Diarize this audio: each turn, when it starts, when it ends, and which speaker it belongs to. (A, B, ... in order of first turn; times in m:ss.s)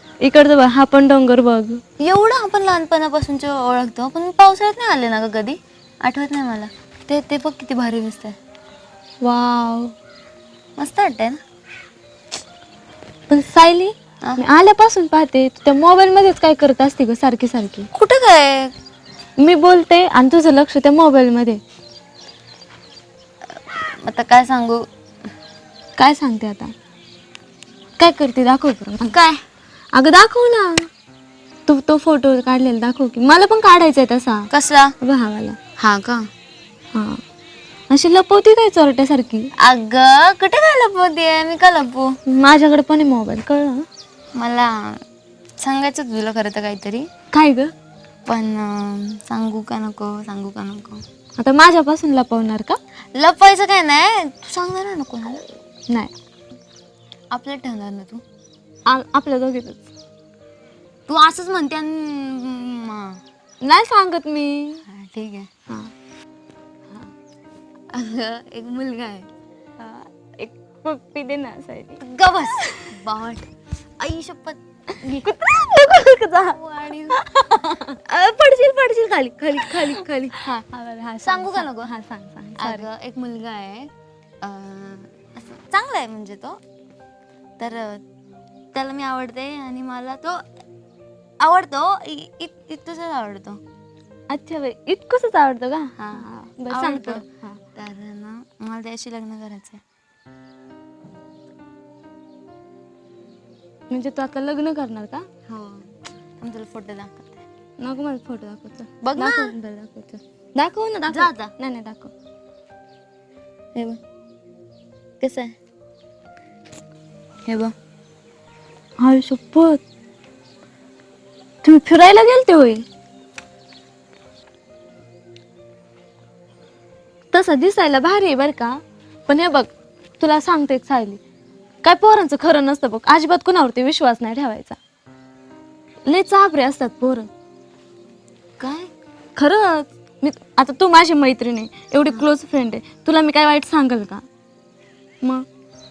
0:00.2-0:01.8 A
0:02.0-0:08.4 B
0:09.2-0:09.9 A
0:10.8-0:11.4 B
0:13.3-0:17.9 A
0:17.9-0:18.7 B
0:19.4-0:21.6 A
0:23.6-0:24.8 B
0:26.0-0:26.7 A
0:28.0-0:29.2 A
0:29.1-0:29.4 B
0:29.9-0:30.9 A
0:31.7-0:34.5 A
0:34.5-0:34.9 B
0:35.0-0:35.6 A
0:35.8-0:36.3 B
0:36.9-0:37.2 A
0:37.9-0:39.5 A
0:39.6-0:42.2 B
0:42.3-0:43.8 A
0:44.4-0:45.0 B
0:45.6-0:47.1 B
0:47.3-0:47.7 A
0:48.3-0:51.0 B
0:51.4-0:52.8 A
0:53.1-0:55.4 B
0:57.3-0:58.2 B
0:58.9-0:59.9 A
1:01.1-1:03.2 B
1:03.6-1:04.8 A
1:04.9-1:05.5 B
1:07.9-1:09.3 B
1:09.8-1:12.0 A
1:12.0-1:13.5 B
1:14.0-1:15.5 B
1:15.1-1:17.9 A
1:16.3-1:17.2 B
1:18.0-1:20.5 B
1:20.4-1:22.9 A
1:21.2-1:21.9 B
1:22.6-1:23.9 B
1:24.4-1:26.6 B
1:27.6-1:28.0 B
1:28.7-1:30.4 B
1:31.4-1:33.6 B
1:34.3-1:37.6 A
1:36.0-1:39.8 B
1:43.9-1:45.2 A
1:45.5-1:45.9 B
1:46.4-1:47.4 B
1:47.8-1:52.1 A
1:49.0-1:49.5 B
1:51.1-1:51.5 B
1:55.2-1:55.5 B
1:57.5-1:57.7 B
1:59.0-1:59.8 A
2:01.6-2:02.8 A
2:07.3-2:11.2 A
2:11.8-2:14.8 A
2:16.1-2:17.3 A
2:18.6-2:18.9 B
2:19.4-2:24.2 A